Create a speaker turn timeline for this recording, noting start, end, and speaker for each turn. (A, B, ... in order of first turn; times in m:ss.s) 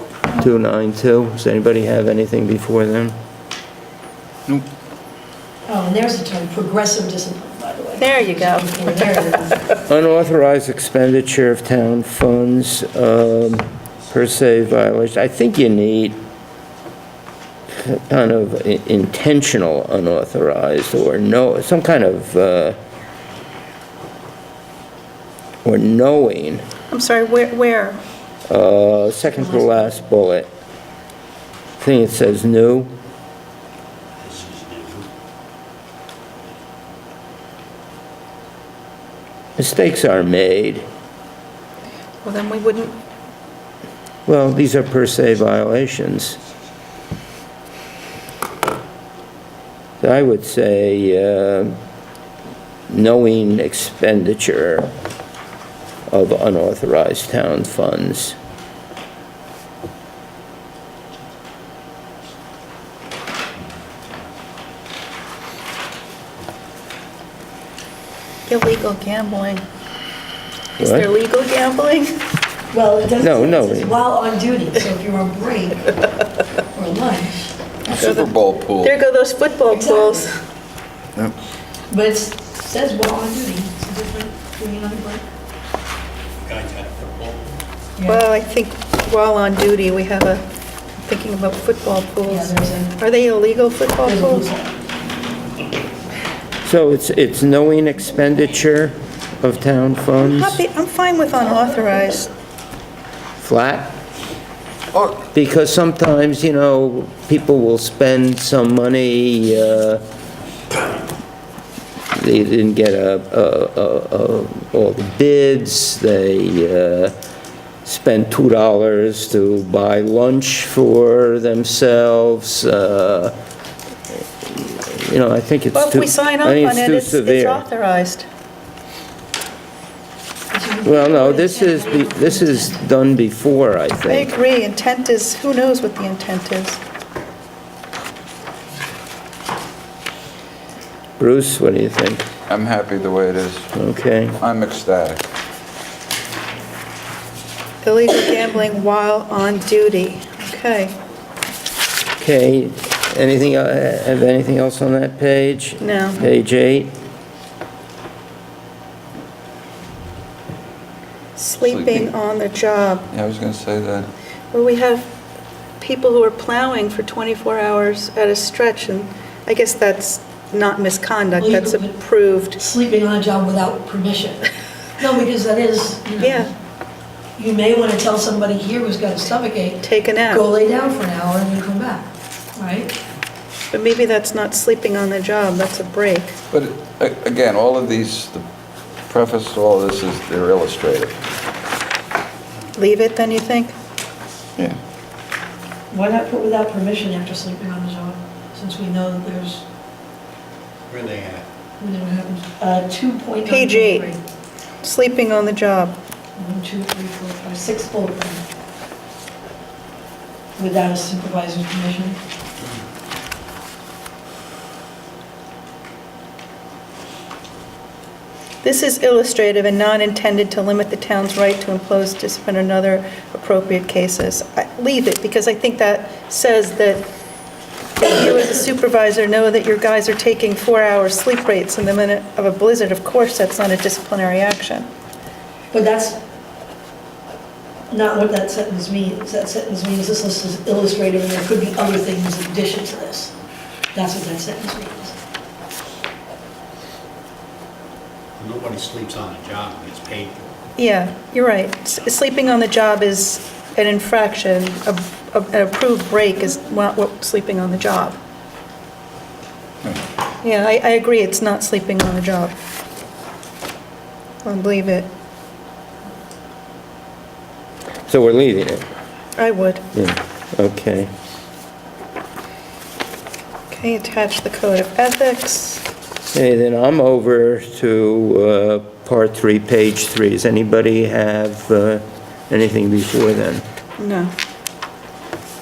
0:00.3-0:03.2 A
0:05.7-0:09.7 B
0:08.0-0:09.8 C
0:09.9-0:16.2 A
0:17.7-0:22.8 A
0:25.6-0:26.6 A
0:26.9-0:28.0 C
0:28.5-0:30.5 A
0:29.4-0:30.0 B
0:31.8-0:32.9 A
0:34.2-0:35.1 D
0:39.6-0:40.8 A
0:42.2-0:43.0 C
0:44.3-0:46.4 A
0:50.0-0:51.8 A
0:52.9-0:54.9 A
0:56.1-0:58.4 A
1:08.5-1:09.6 C
1:10.8-1:11.1 A
1:10.8-1:12.1 C
1:12.7-1:15.9 B
1:13.2-1:13.9 A
1:16.7-1:17.5 B
1:17.9-1:20.3 C
1:17.9-1:19.0 E
1:19.7-1:20.3 B
1:21.9-1:25.3 B
1:26.4-1:27.4 D
1:28.0-1:28.2 B
1:28.0-1:30.4 C
1:31.1-1:34.5 C
1:32.3-1:33.0 B
1:34.0-1:34.7 B
1:36.6-1:40.6 A
1:40.2-1:42.3 C
1:43.4-1:44.0 A
1:44.9-1:45.2 E
1:45.3-1:50.0 A
1:52.1-1:57.1 A
1:57.8-2:03.4 A
2:04.4-2:07.6 A
2:05.7-2:08.2 C
2:10.5-2:12.8 B
2:10.8-2:14.3 A
2:14.1-2:16.8 C
2:21.2-2:22.3 A
2:22.5-2:23.7 E
2:23.8-2:24.4 A
2:24.4-2:25.3 E
2:27.8-2:30.9 C
2:32.2-2:36.9 A
2:35.8-2:36.2 C
2:41.4-2:43.1 C
2:41.6-2:42.1 E
2:43.1-2:44.1 E
2:44.5-2:45.1 C
2:45.8-2:52.6 C
2:51.4-2:51.9 B
2:52.6-2:56.5 B
2:56.2-2:56.5 C
2:57.4-3:02.9 B
2:59.8-3:00.4 C
3:03.7-3:06.4 C
3:06.5-3:08.4 E
3:09.1-3:11.2 E
3:12.8-3:13.7 C
3:15.9-3:19.6 B
3:20.9-3:21.4 D
3:21.8-3:24.2 B
3:23.5-3:24.1 C
3:24.8-3:26.0 C
3:26.4-3:28.4 B
3:30.6-3:32.2 B
3:38.6-3:47.1 C
3:48.0-3:54.9 C
3:55.7-3:56.2 B
3:57.9-4:03.3 B
4:03.9-4:05.2 B
4:08.4-4:10.5 D
4:10.8-4:18.2 C
4:20.4-4:22.6 C
4:24.4-4:25.1 C
4:28.1-4:28.8 A
4:29.4-4:29.8 C
4:29.9-4:31.1 A
4:33.7-4:35.8 C
4:36.3-4:43.6 A
4:44.0-4:44.3 C